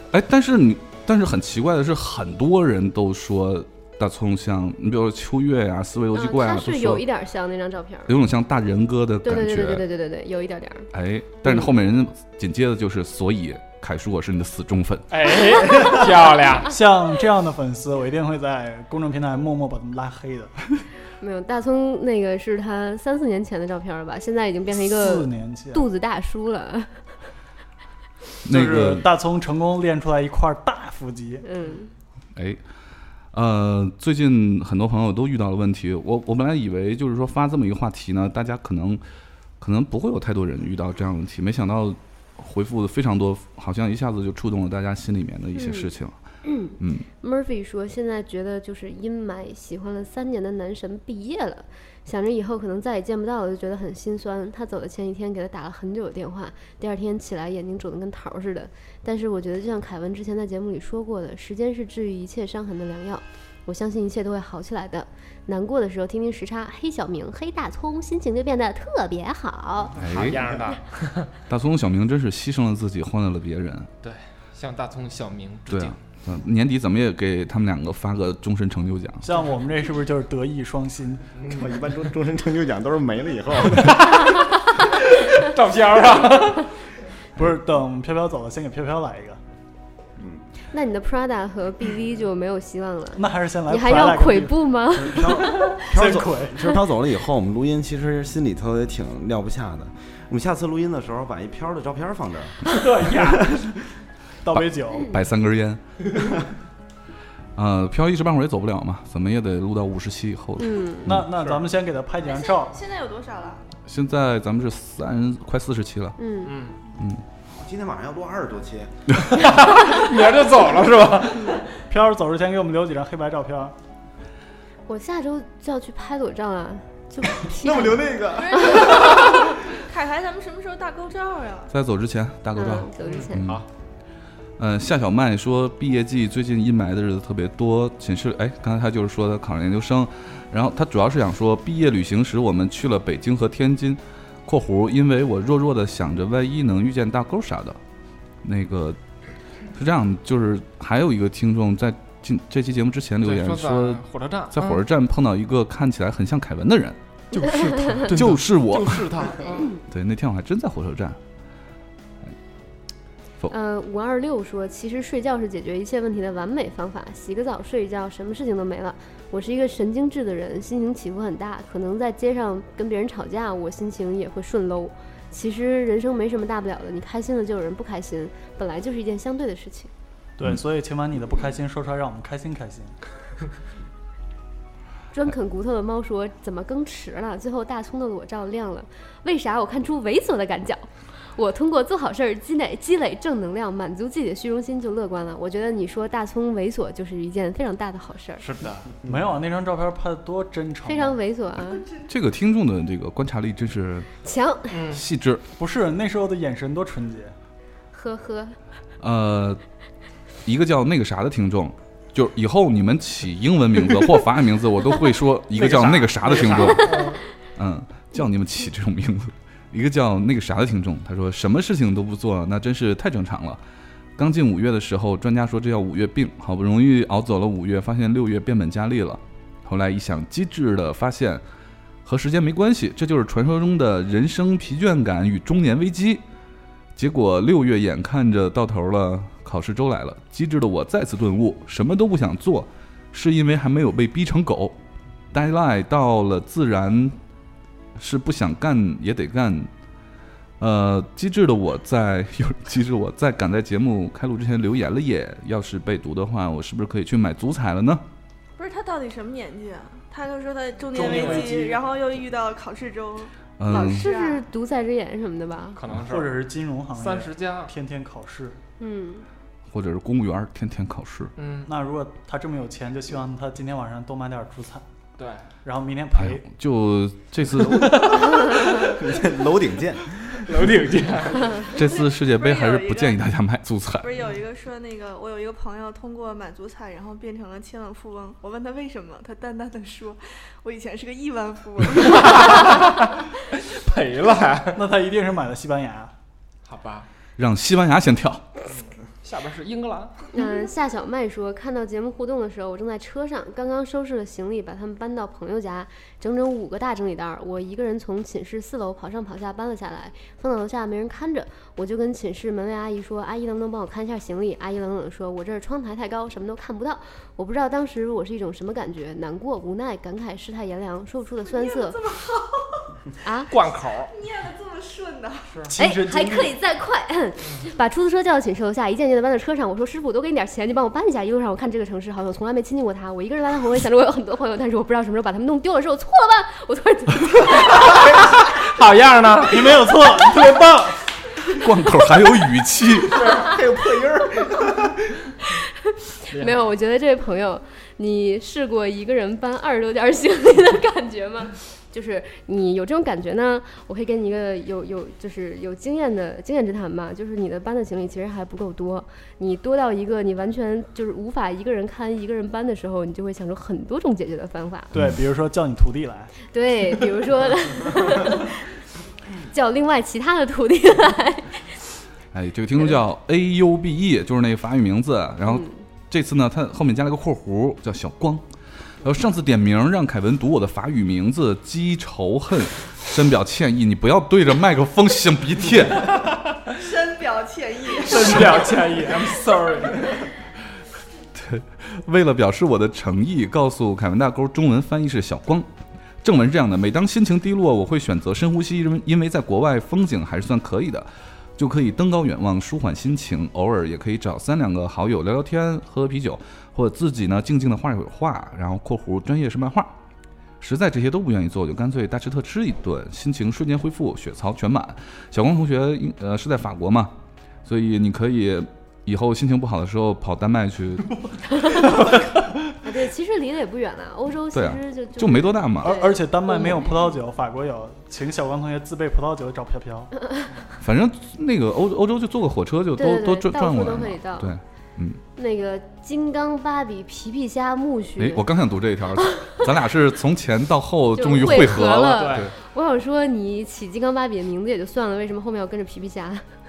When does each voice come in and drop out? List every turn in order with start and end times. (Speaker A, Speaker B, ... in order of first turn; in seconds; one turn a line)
Speaker A: 0.1-7.0
Speaker B: 6.1-8.1
Speaker A: 8.1-9.8
Speaker B: 9.2-10.9
Speaker A: 10.9-15.1
Speaker C: 15.1-16.7
Speaker D: 16.6-20.5
Speaker B: 21.2-27.0
Speaker D: 24.8-25.9
Speaker A: 28.4-29.1
Speaker D: 28.5-31.4
Speaker B: 31.4-31.9
Speaker A: 32.4-32.6
Speaker A: 33.3-39.0
Speaker A: 39.6-46.2
Speaker B: 45.6-45.9
Speaker B: 46.4-70.0
Speaker A: 46.8-47.1
Speaker C: 70.0-71.3
Speaker A: 70.0-70.4
Speaker E: 70.2-70.5
Speaker A: 71.5-73.9
Speaker C: 74.0-76.0
Speaker A: 75.7-79.3
Speaker D: 79.2-81.4
Speaker E: 81.4-84.3
Speaker C: 83.8-86.7
Speaker D: 87.4-89.4
Speaker E: 90.2-90.4
Speaker B: 90.7-95.8
Speaker D: 93.2-95.3
Speaker E: 94.9-103.7
Speaker D: 95.9-96.7
Speaker D: 102.8-103.4
Speaker C: 102.8-103.4
Speaker D: 104.4-105.1
Speaker A: 104.5-105.8
Speaker A: 107.6-111.3
Speaker B: 110.6-111.2
Speaker D: 111.1-112.8
Speaker F: 112.2-113.7
Speaker A: 113.9-116.2
Speaker B: 116.2-116.5
Speaker C: 116.5-116.8
Speaker A: 117.0-117.2
Speaker E: 117.5-118.9
Speaker C: 119.4-121.7
Speaker D: 121.9-123.8
Speaker B: 124.9-128.2
Speaker E: 127.5-128.9
Speaker F: 128.3-131.7
Speaker B: 128.7-129.5
Speaker A: 131.7-133.7
Speaker B: 132.6-133.4
Speaker C: 133.0-133.7
Speaker A: 134.6-147.8
Speaker A: 148.4-149.0
Speaker A: 149.7-157.0
Speaker C: 153.2-154.8
Speaker C: 157.4-158.3
Speaker A: 158.0-159.1
Speaker E: 158.7-159.7
Speaker C: 159.3-159.7
Speaker A: 159.9-161.2
Speaker B: 163.5-179.9
Speaker D: 180.4-182.9
Speaker B: 185.1-198.4
Speaker C: 198.4-198.9
Speaker D: 199.0-201.2
Speaker B: 200.9-201.8
Speaker F: 201.6-202.1
Speaker A: 202.1-204.1
Speaker B: 204.2-204.8
Speaker C: 204.7-205.0
Speaker A: 204.9-205.4
Speaker D: 205.6-207.3
Speaker B: 207.9-208.6
Speaker A: 209.0-209.6
Speaker A: 210.4-223.6
Speaker C: 215.6-217.2
Speaker A: 224.2-231.4
Speaker A: 232.1-236.2
Speaker A: 237.0-244.8
Speaker A: 245.3-247.2
Speaker A: 248.0-249.7
Speaker A: 250.6-258.1
Speaker F: 258.6-264.4
Speaker D: 260.9-261.8
Speaker C: 260.9-261.6
Speaker A: 263.6-264.1
Speaker B: 263.7-265.8
Speaker C: 265.8-267.7
Speaker D: 266.0-268.6
Speaker B: 268.8-269.3
Speaker A: 269.7-271.3
Speaker C: 271.4-271.7
Speaker D: 271.6-274.9
Speaker C: 275.2-275.5
Speaker D: 275.6-276.4
Speaker A: 276.2-278.4
Speaker C: 277.7-279.0
Speaker E: 278.7-280.6
Speaker C: 280.3-281.7
Speaker A: 281.6-284.1
Speaker F: 281.7-283.2
Speaker F: 284.0-292.9
Speaker C: 292.1-294.9
Speaker D: 294.7-296.1
Speaker C: 296.6-297.1
Speaker A: 297.4-298.5
Speaker C: 298.7-300.3
Speaker B: 300.3-322.0
Speaker F: 321.4-322.9
Speaker B: 323.2-323.5
Speaker C: 323.5-324.1
Speaker F: 324.1-325.6
Speaker C: 325.5-325.8
Speaker D: 325.7-326.6
Speaker B: 325.8-338.1
Speaker C: 337.8-339.8
Speaker D: 339.4-341.0
Speaker A: 341.5-343.4
Speaker C: 343.2-343.5
Speaker E: 343.2-344.9
Speaker B: 345.4-345.7
Speaker B: 346.3-364.9
Speaker C: 346.3-346.6
Speaker D: 364.9-366.3
Speaker B: 366.5-368.5
Speaker B: 369.5-371.8
Speaker A: 372.3-378.4
Speaker A: 379.0-386.2
Speaker C: 386.1-386.4
Speaker F: 386.8-388.7
Speaker C: 387.9-390.3
Speaker A: 391.3-395.7
Speaker A: 396.2-409.9
Speaker A: 410.6-421.2
Speaker B: 422.8-426.9
Speaker A: 424.5-426.0
Speaker D: 425.8-430.1
Speaker A: 430.8-435.2
Speaker B: 433.0-434.5
Speaker B: 435.4-438.4
Speaker A: 438.2-442.5
Speaker B: 441.1-446.4
Speaker C: 442.1-442.5